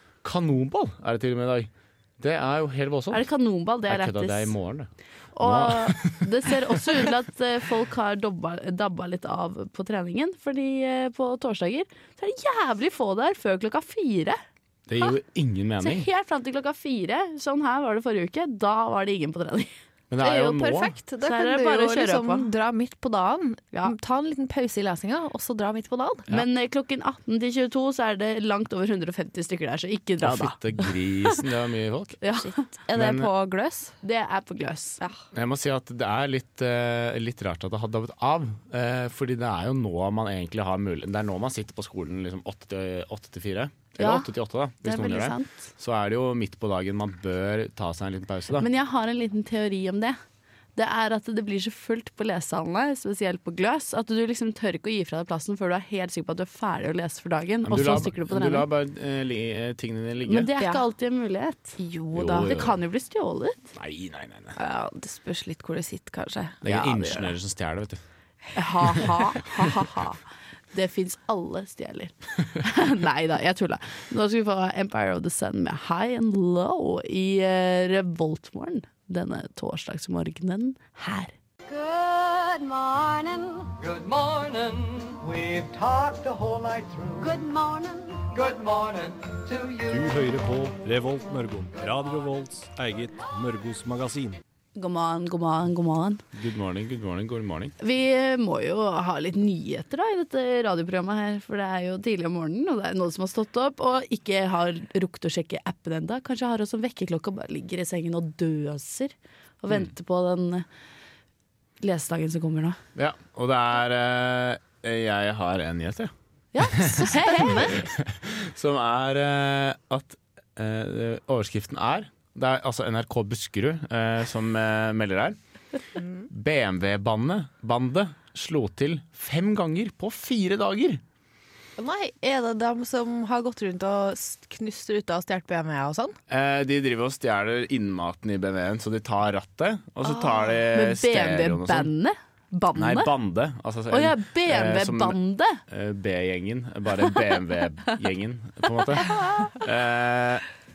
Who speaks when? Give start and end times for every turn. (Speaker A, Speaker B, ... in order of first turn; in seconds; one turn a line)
Speaker A: 0.2-3.3
Speaker B: 3.1-4.5
Speaker A: 3.9-6.8
Speaker B: 5.3-14.4
Speaker A: 14.9-16.1
Speaker B: 15.8-19.7
Speaker A: 20.1-20.9
Speaker C: 20.2-26.3
Speaker B: 21.2-22.5
Speaker B: 26.3-31.4
Speaker A: 30.2-32.2
Speaker B: 32.2-32.5
Speaker C: 32.3-33.9
Speaker A: 32.9-33.3
Speaker B: 34.0-35.0
Speaker A: 35.3-48.7
Speaker B: 44.0-44.3
Speaker B: 44.8-45.6
Speaker B: 48.5-50.2
Speaker B: 50.8-58.6
Speaker A: 57.6-60.5
Speaker B: 60.2-61.8
Speaker C: 61.8-62.5
Speaker A: 62.1-62.8
Speaker B: 62.4-63.7
Speaker A: 63.7-64.6
Speaker C: 64.5-67.3
Speaker A: 66.6-68.0
Speaker B: 68.5-70.2
Speaker C: 68.8-69.5
Speaker B: 70.7-81.3
Speaker D: 81.7-83.7
Speaker E: 83.8-87.3
Speaker D: 87.2-88.3
Speaker E: 88.3-90.1
Speaker F: 89.9-94.4
Speaker B: 94.8-96.2
Speaker A: 96.3-97.7
Speaker B: 97.8-110.7
Speaker B: 111.8-112.8
Speaker A: 113.0-116.1
Speaker B: 116.5-117.8
Speaker A: 116.8-125.4
Speaker C: 116.9-117.9
Speaker C: 126.0-126.3
Speaker A: 126.3-131.0
Speaker C: 131.8-136.2
Speaker A: 136.3-141.9
Speaker B: 140.6-143.1
Speaker A: 142.7-145.2
Speaker B: 143.9-145.6
Speaker A: 145.7-150.4